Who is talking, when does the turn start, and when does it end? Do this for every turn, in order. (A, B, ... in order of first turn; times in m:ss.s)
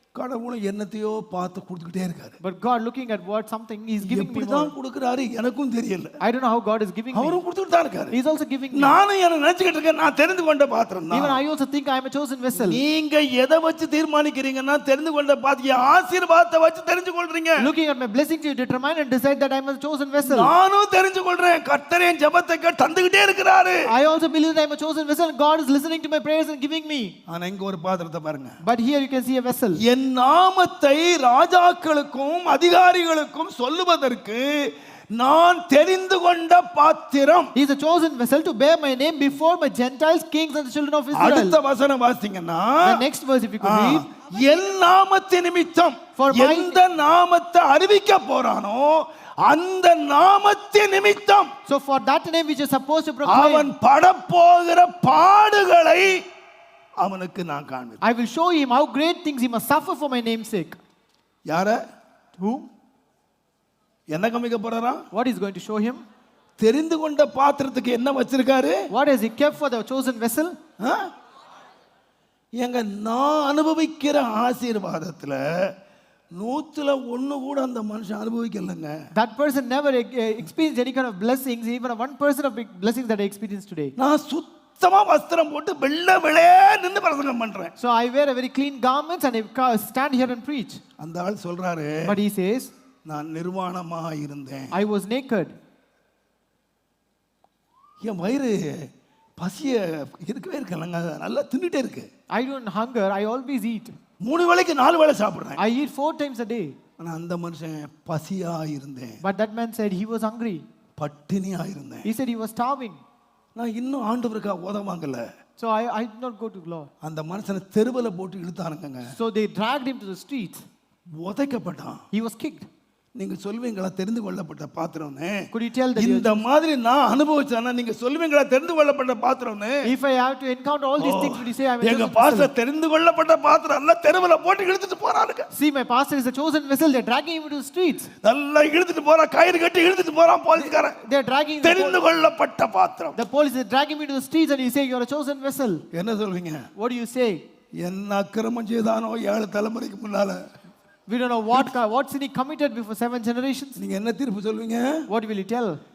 0:00.2-0:02.4 A
0:02.4-0:04.7 B
0:04.0-0:06.1 A
0:06.2-0:07.4 B
0:07.1-0:08.2 A
0:08.1-0:09.0 B
0:08.7-0:11.4 A
0:11.1-0:12.8 B
0:12.5-0:17.7 A
0:17.6-0:20.5 B
0:20.2-0:23.9 A
0:23.9-0:27.2 B
0:27.3-0:28.6 A
0:28.6-0:29.8 B
0:29.8-0:37.5 A
0:37.6-0:41.6 B
0:41.1-0:43.0 A
0:42.8-0:44.1 B
0:43.6-0:51.5 A
0:46.2-0:46.8 B
0:51.7-0:53.7 B
0:53.2-0:56.2 A
0:57.0-0:58.0 A
0:58.0-1:00.8 B
1:01.5-1:01.8 A
1:02.4-1:02.7 B
1:04.1-1:05.0 A
1:05.1-1:06.0 B
1:06.6-1:08.9 A
1:08.9-1:10.6 B
1:10.8-1:11.1 A
1:12.6-1:15.7 A
1:16.4-1:18.9 A
1:19.2-1:23.9 B
1:24.0-1:27.7 A
1:27.8-1:30.8 B
1:31.0-1:32.2 A
1:32.1-1:32.7 B
1:33.1-1:34.7 A
1:34.7-1:35.6 B
1:38.0-1:42.1 A
1:42.3-1:44.0 B
1:44.2-1:45.6 A
1:45.6-1:46.8 B
1:47.0-1:49.2 A
1:49.2-1:50.7 B
1:51.0-1:52.1 A
1:52.1-1:53.0 B
1:53.6-1:55.3 A
1:55.6-1:56.9 B
1:57.0-1:59.1 A
1:59.2-2:00.6 B
2:01.2-2:02.0 A
2:02.1-2:02.7 B
2:03.2-2:09.9 A
2:05.5-2:06.4 B
2:09.8-2:12.5 B
2:11.0-2:15.5 A
2:15.5-2:18.1 B
2:18.2-2:21.0 A
2:20.6-2:22.0 B
2:21.6-2:23.2 A
2:23.2-2:25.8 B
2:25.9-2:26.7 A
2:26.8-2:27.4 B
2:27.8-2:30.4 A
2:31.1-2:33.8 B
2:33.8-2:34.9 A
2:35.1-2:35.8 B